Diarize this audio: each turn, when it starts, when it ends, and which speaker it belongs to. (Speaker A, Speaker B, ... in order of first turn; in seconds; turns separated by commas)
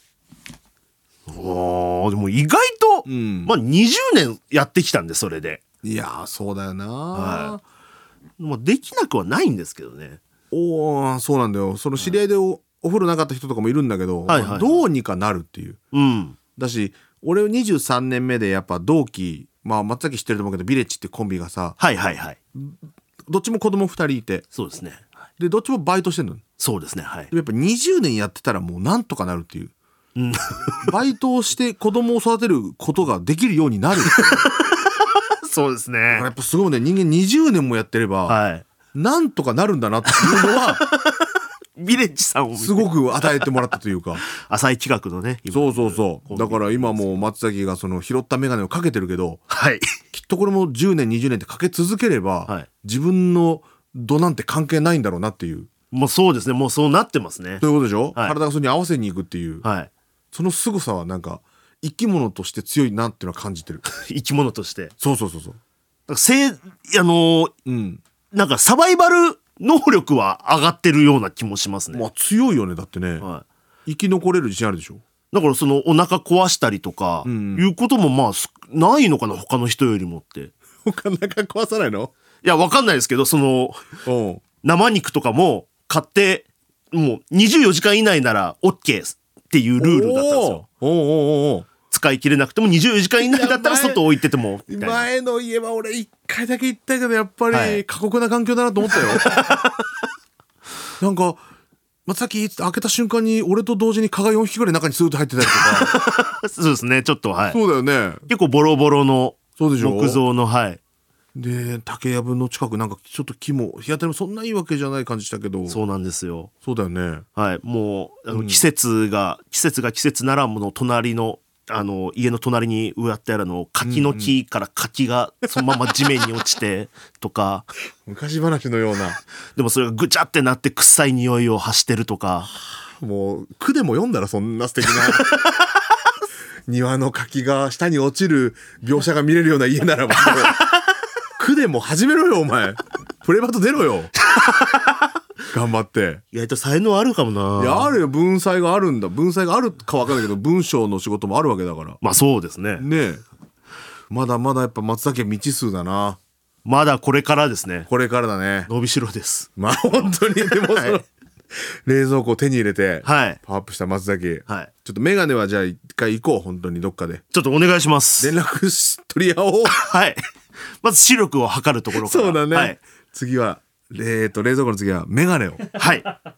Speaker A: 1.3-5.6, Speaker B: 3.0-3.6, Speaker B: 5.8-7.6, Speaker A: 7.1-7.6, Speaker A: 8.4-10.2, Speaker B: 10.5-15.8, Speaker A: 14.3-14.8, Speaker A: 15.9-16.4, Speaker B: 16.6-21.8, Speaker A: 21.8-22.4, Speaker B: 23.3-24.4, Speaker A: 24.5-25.1, Speaker B: 25.4-26.4, Speaker A: 26.6-27.3, Speaker B: 27.3-29.7, Speaker A: 30.1-30.7, Speaker B: 30.8-34.5, Speaker A: 34.1-34.5, Speaker A: 35.5-36.2, Speaker B: 36.1-38.4, Speaker A: 38.3-38.6, Speaker B: 38.9-40.8, Speaker A: 40.1-41.1, Speaker A: 41.8-43.5, Speaker B: 42.5-44.2, Speaker A: 44.4-47.2, Speaker B: 45.5-49.4, Speaker A: 49.5-49.9, Speaker B: 50.1-55.7, Speaker A: 55.9-57.6, Speaker B: 57.6-59.6, Speaker A: 59.6-59.9, Speaker B: 60.3-63.9, Speaker A: 63.9-64.9, Speaker B: 65.0-65.6, Speaker A: 66.1-67.5, Speaker B: 67.7-68.0, Speaker A: 68.3-72.0, Speaker B: 71.9-73.3, Speaker B: 73.9-75.0, Speaker A: 75.3-80.5, Speaker B: 77.2-77.7, Speaker B: 80.8-82.1, Speaker A: 82.4-84.0, Speaker B: 84.0-84.4, Speaker A: 84.6-90.6, Speaker B: 89.8-91.7, Speaker A: 91.9-95.1, Speaker B: 93.2-94.0, Speaker B: 94.7-99.5, Speaker A: 97.5-97.8, Speaker A: 98.9-99.7, Speaker B: 101.0-101.4, Speaker B: 102.0-105.9, Speaker A: 105.4-107.6, Speaker B: 107.5-108.2, Speaker A: 108.3-110.8, Speaker B: 109.6-110.2, Speaker B: 111.3-115.8, Speaker A: 115.7-116.5, Speaker B: 116.6-117.2, Speaker A: 117.3-127.7, Speaker B: 118.3-118.6, Speaker B: 123.8-124.3, Speaker B: 128.1-129.2, Speaker A: 129.6-132.5, Speaker B: 133.0-135.3, Speaker B: 136.7-140.6, Speaker B: 141.4-144.1, Speaker B: 145.5-146.2, Speaker A: 146.3-147.9, Speaker B: 147.6-152.0, Speaker A: 152.0-152.8, Speaker B: 152.8-153.2, Speaker B: 154.1-156.2, Speaker A: 156.6-157.9, Speaker B: 157.9-158.7, Speaker A: 158.7-161.0, Speaker B: 159.6-167.2, Speaker A: 163.0-163.4, Speaker A: 167.3-168.3, Speaker B: 168.2-169.8, Speaker A: 169.8-170.2, Speaker A: 170.8-172.8, Speaker B: 171.9-175.6, Speaker A: 175.8-176.1